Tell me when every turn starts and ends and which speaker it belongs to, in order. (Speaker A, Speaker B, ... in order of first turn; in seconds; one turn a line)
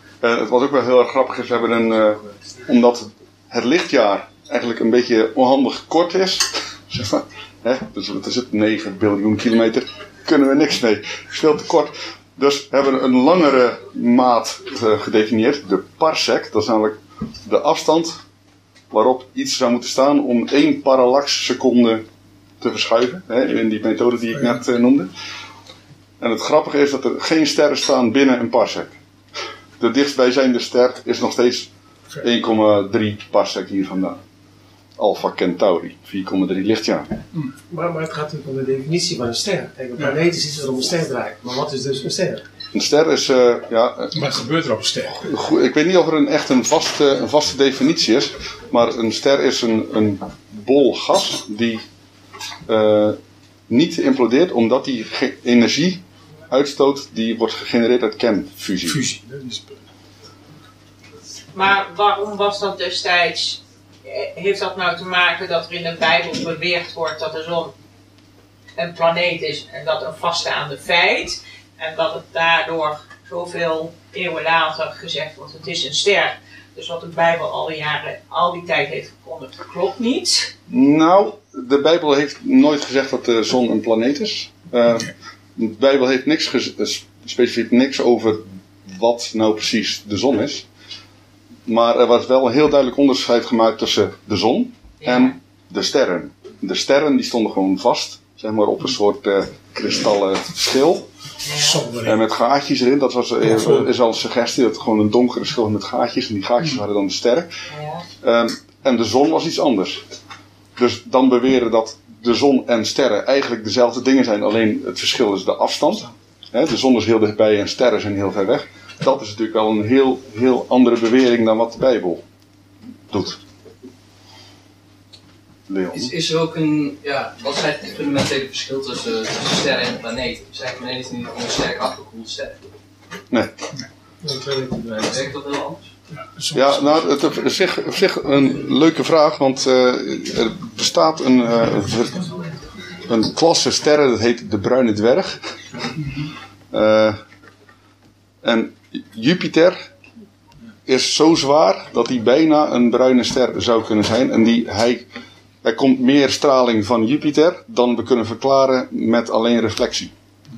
Speaker A: 0.2-18.2
Speaker A: 18.9-22.1
Speaker A: 22.6-25.1
Speaker A: 26.2-29.0
Speaker A: 29.8-31.7
Speaker A: 32.2-34.2
Speaker A: 35.0-37.2
Speaker B: 37.7-42.4
Speaker A: 42.7-44.3
Speaker C: 44.1-45.2
Speaker A: 45.2-51.8
Speaker A: 52.7-53.2
Speaker A: 53.7-59.0
Speaker C: 58.8-59.8
Speaker D: 61.5-67.7
Speaker D: 68.8-80.5
Speaker A: 80.7-90.7
Speaker A: 91.7-101.1
Speaker D: 95.0-95.3
Speaker D: 101.5-101.8
Speaker C: 101.5-102.2
Speaker A: 102.0-107.5
Speaker C: 103.4-103.9
Speaker D: 107.7-108.0
Speaker A: 108.2-110.0
Speaker A: 110.8-122.2
Speaker A: 123.1-123.4
Speaker A: 125.7-126.1
Speaker E: 125.9-132.6
Speaker A: 133.3-133.6
Speaker B: 134.2-135.2
Speaker E: 135.0-135.9
Speaker C: 136.3-137.3
Speaker A: 136.5-142.2
Speaker A: 143.1-145.4
Speaker A: 146.7-147.2
Speaker A: 148.4-149.8
Speaker A: 150.9-155.1
Speaker A: 155.6-160.1